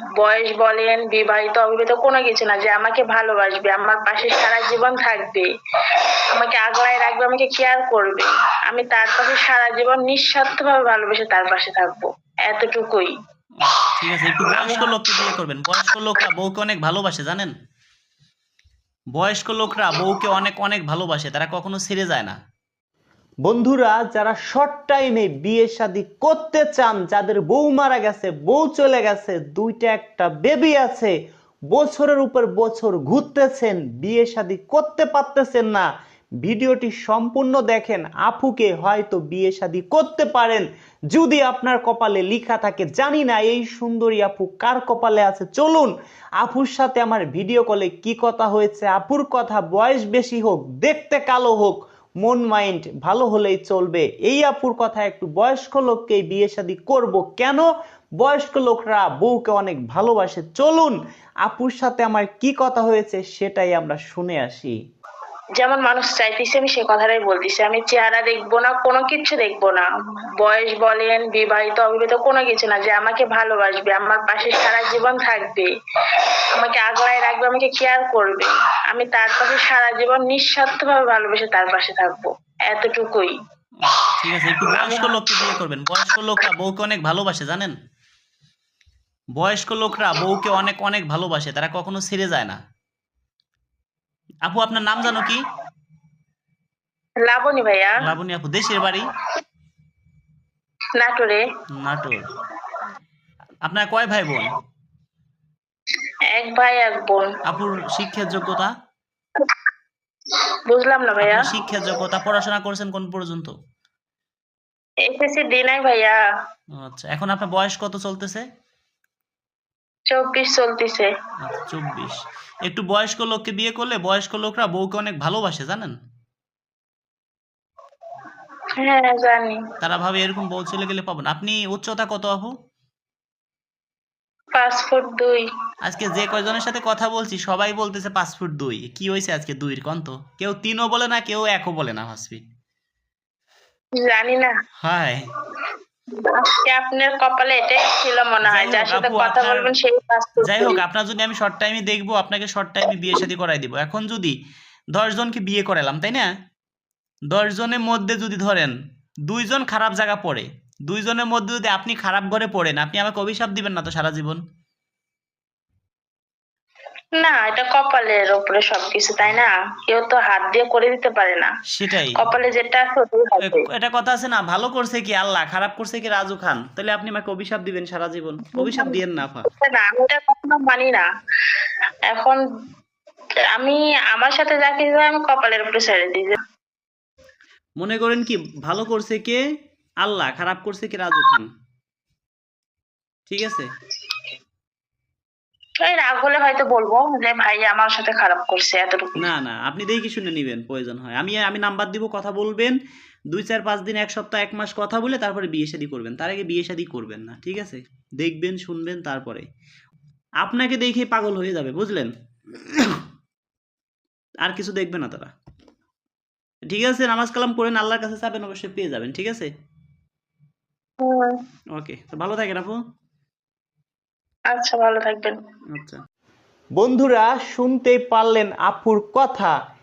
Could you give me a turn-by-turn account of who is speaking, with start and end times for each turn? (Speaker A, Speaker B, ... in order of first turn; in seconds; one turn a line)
Speaker A: 0.2-5.5
Speaker A: 6.4-13.1
Speaker B: 13.6-17.5
Speaker A: 14.3-14.9
Speaker B: 19.1-22.4
Speaker C: 23.4-31.1
Speaker C: 31.7-35.8
Speaker C: 36.4-57.6
Speaker C: 58.2-60.9
Speaker C: 61.5-64.7
Speaker A: 65.6-69.9
Speaker A: 70.4-75.7
Speaker A: 76.6-83.3
Speaker B: 83.8-87.7
Speaker A: 84.6-85.1
Speaker B: 89.4-92.6
Speaker B: 94.5-95.4
Speaker A: 97.2-98.1
Speaker B: 98.0-99.0
Speaker A: 101.0-101.4
Speaker B: 101.8-102.2
Speaker B: 103.7-104.5
Speaker A: 106.3-107.3
Speaker B: 107.5-108.7
Speaker A: 110.7-111.5
Speaker B: 111.2-113.5
Speaker A: 115.0-116.2
Speaker B: 116.8-118.4
Speaker A: 120.1-121.1
Speaker B: 121.4-125.9
Speaker A: 128.8-129.6
Speaker B: 129.8-132.5
Speaker A: 134.5-135.4
Speaker B: 135.8-142.4
Speaker A: 144.0-144.5
Speaker B: 144.8-145.2
Speaker A: 146.1-150.8
Speaker B: 148.4-149.7
Speaker B: 150.4-154.3
Speaker B: 154.9-156.3
Speaker B: 157.3-158.7
Speaker B: 159.3-164.4
Speaker A: 167.2-171.5
Speaker B: 171.8-172.2
Speaker A: 172.2-173.7
Speaker B: 173.4-179.5
Speaker A: 178.6-181.1
Speaker A: 182.1-182.4
Speaker A: 183.5-186.4
Speaker B: 187.8-189.4
Speaker B: 190.0-191.5
Speaker B: 193.3-193.7
Speaker A: 195.8-199.2
Speaker B: 199.2-202.7
Speaker B: 203.3-209.5
Speaker B: 210.4-213.0
Speaker B: 214.4-215.3
Speaker B: 216.7-219.5
Speaker A: 221.0-221.4
Speaker B: 221.7-222.8
Speaker A: 224.5-225.4
Speaker B: 225.7-226.0
Speaker C: 226.8-229.5